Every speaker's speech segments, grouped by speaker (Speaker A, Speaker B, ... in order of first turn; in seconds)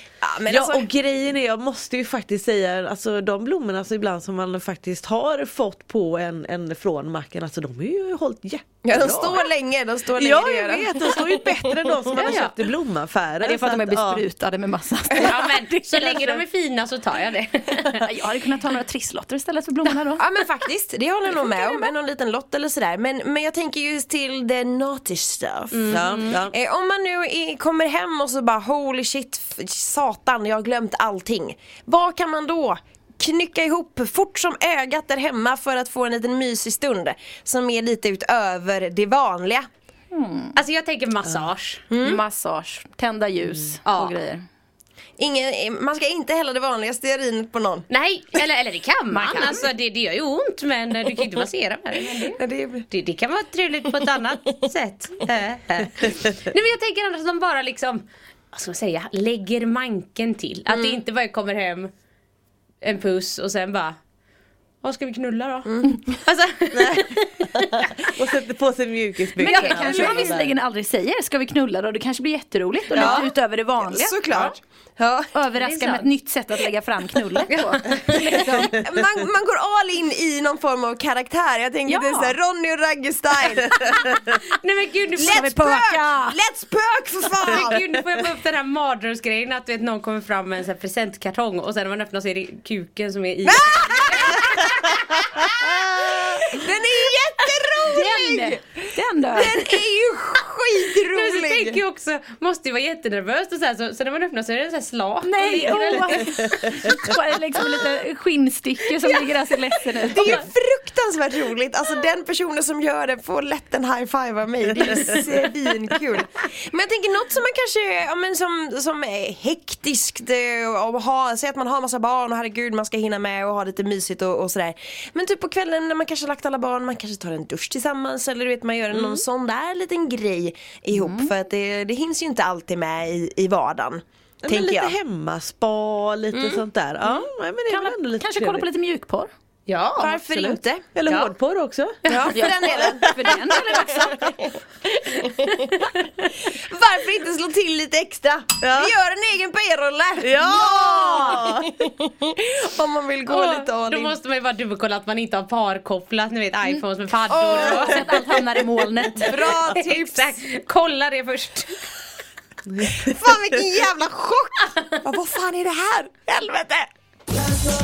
Speaker A: 0.2-0.9, 8.8-11.9, 20.2-39.7, 41.9-42.2, 45.2-47.9, 52.1-52.9, 60.7-61.0, 72.9-75.3, 78.6-84.1, 85.2-88.2, 93.4-98.6, 99.3-101.8, 110.0-135.0, 136.3-136.6, 140.0-140.9, 142.1-145.9, 146.5-154.2, 157.3-158.3, 159.2-160.3, 162.8-166.9
Speaker B: 0.5-9.5, 10.2-14.2, 16.1-16.4, 25.9-26.5, 66.7-70.5, 73.0-73.3, 128.9-129.2, 134.4-138.7, 140.9-144.2, 148.6-148.9, 150.2-151.8
Speaker C: 12.1-12.6, 15.2-18.1, 25.7-26.4, 40.5-41.9, 43.9-44.2, 47.9-61.9, 62.8-64.0, 64.8-68.1, 69.5-70.3, 75.6-76.1, 77.5-78.3, 84.3-85.5, 87.4-94.8, 101.1-106.7, 139.7-140.5, 141.1-141.3, 153.3-158.4, 159.2-161.8
Speaker D: 13.4-16.2, 17.9-20.7, 40.1-40.6, 42.0-44.4, 49.1-49.7, 69.4-74.4, 75.3-78.8, 81.8-82.4, 85.2-86.4, 97.8-99.8, 105.2-110.4, 130.9-131.3, 137.7-139.3, 142.3-144.4, 157.5-159.8